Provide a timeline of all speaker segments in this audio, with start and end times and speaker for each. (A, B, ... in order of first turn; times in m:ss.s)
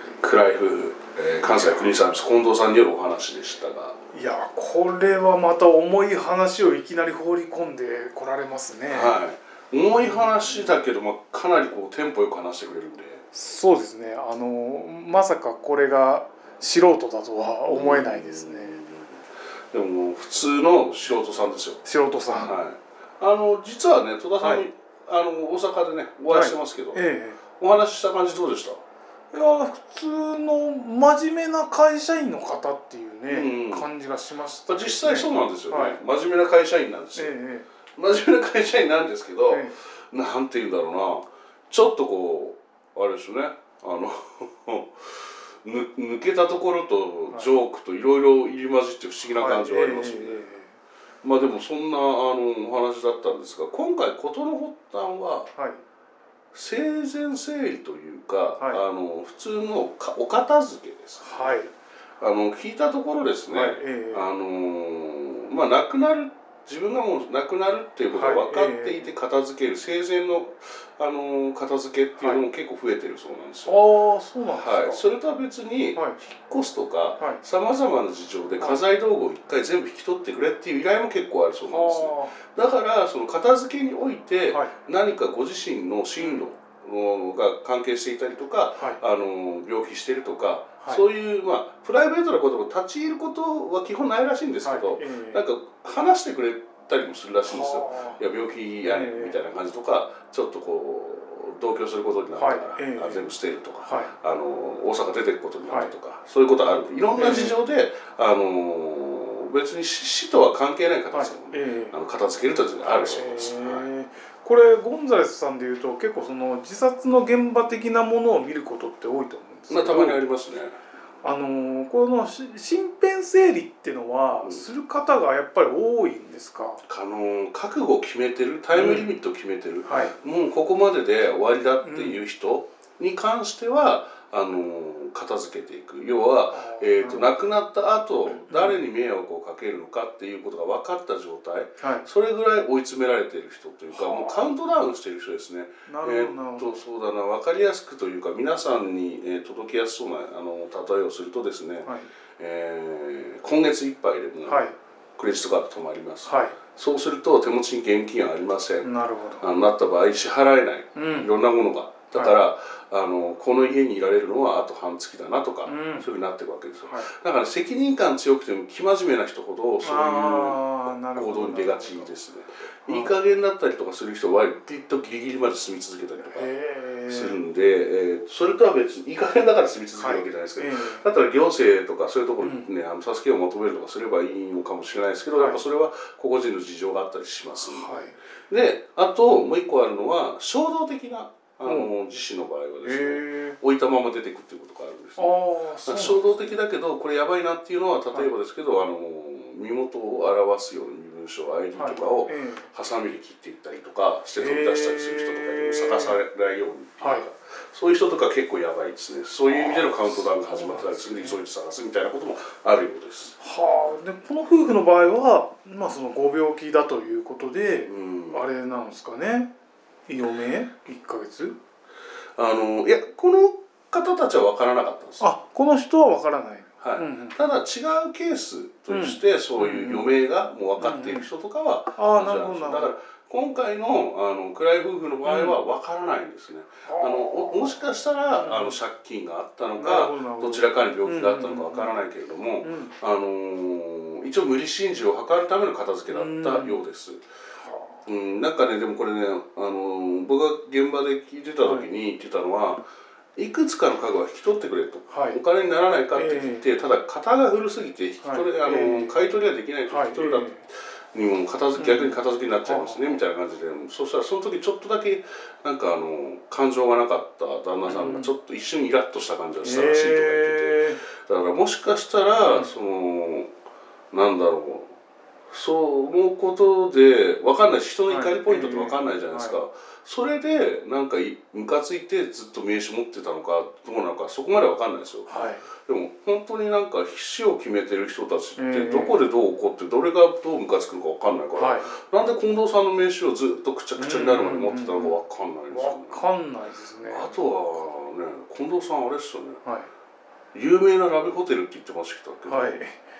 0:00.2-0:04.0 A
0:04.1-0:09.2 B
0:08.9-0:13.2 A
0:10.0-0:10.7 B
0:13.3-0:18.8 B
0:17.7-0:19.2 A
0:19.7-0:21.8 A
0:21.8-0:22.6 B
0:22.3-0:28.8 A
0:26.3-0:27.4 B
0:29.3-0:36.0 B
0:33.3-0:33.9 A
0:34.7-0:37.4 A
0:37.2-0:37.7 B
0:38.0-0:50.4 A
0:39.5-0:39.8 B
0:49.4-0:50.7 B
0:51.2-0:55.5 A
0:55.5-0:55.8 B
0:56.5-1:01.6 A
1:01.2-1:01.7 B
1:02.2-1:13.8 A
1:03.5-1:04.2 B
1:08.1-1:09.1 B
1:13.7-1:15.0 B
1:14.6-1:53.9 A
1:21.7-1:22.4 B
1:26.2-1:26.4 B
1:34.6-1:35.4 B
1:37.5-1:38.2 B
1:38.8-1:39.4 B
1:42.4-1:43.3 B
1:43.9-1:44.1 B
1:45.7-1:45.9 B
1:47.2-1:47.6 B
1:51.1-1:52.0 B
1:52.8-2:00.2 B
1:59.7-2:00.8 A
2:01.2-2:06.8 B
2:04.4-2:04.6 A
2:06.9-2:34.7 A
2:08.7-2:09.1 B
2:09.9-2:10.1 B
2:11.8-2:12.2 B
2:16.5-2:17.5 B
2:18.5-2:18.8 B
2:21.8-2:22.1 B
2:23.9-2:24.5 B
2:25.9-2:26.8 B
2:34.5-2:34.8 B
2:35.2-2:38.9 A
2:36.3-2:36.6 B
2:38.8-2:39.4 B
2:39.4-2:50.6 A
2:41.0-2:41.3 B
2:45.7-2:46.1 B
2:49.8-2:52.1 B
2:51.1-2:56.5 A
2:52.9-2:53.2 B
2:56.2-2:57.4 B
2:57.1-3:15.4 A
3:00.0-3:01.1 B
3:02.4-3:02.7 B
3:05.4-3:05.6 B
3:07.6-3:08.2 B
3:12.8-3:13.6 B
3:15.2-3:16.5 B
3:15.9-3:33.4 A
3:21.8-3:22.7 B
3:24.4-3:26.2 B
3:29.5-3:31.4 B
3:33.4-3:39.5 B
3:37.9-3:38.4 A
3:40.1-3:41.6 B
3:42.4-3:45.3 A
3:45.2-3:47.4 B
3:46.8-4:07.2 A
3:48.9-3:50.1 B
3:50.8-3:51.3 B
3:52.0-3:53.0 B
3:55.2-3:55.6 B
3:56.9-3:57.8 B
3:58.3-3:58.8 B
3:59.8-4:01.9 B
4:02.6-4:02.9 B
4:06.1-4:06.8 B
4:07.6-4:08.0 B
4:08.1-4:12.8 A
4:11.6-4:11.9 B
4:13.4-4:33.5 A
4:15.1-4:15.4 B
4:16.2-4:16.6 B
4:18.2-4:19.2 B
4:19.9-4:20.6 B
4:21.8-4:23.2 B
4:27.9-4:28.3 B
4:29.6-4:31.0 B
4:32.4-4:32.7 B
4:34.1-4:35.0 A
4:35.5-4:56.2 A
4:38.1-4:39.6 B
4:45.3-4:45.6 B
4:48.6-4:49.2 B
4:51.6-4:51.9 B
4:54.0-4:55.2 B
4:55.7-4:57.5 B
4:57.1-4:59.6 A
4:59.6-4:59.9 B
5:00.5-5:02.8 A
5:02.5-5:03.0 B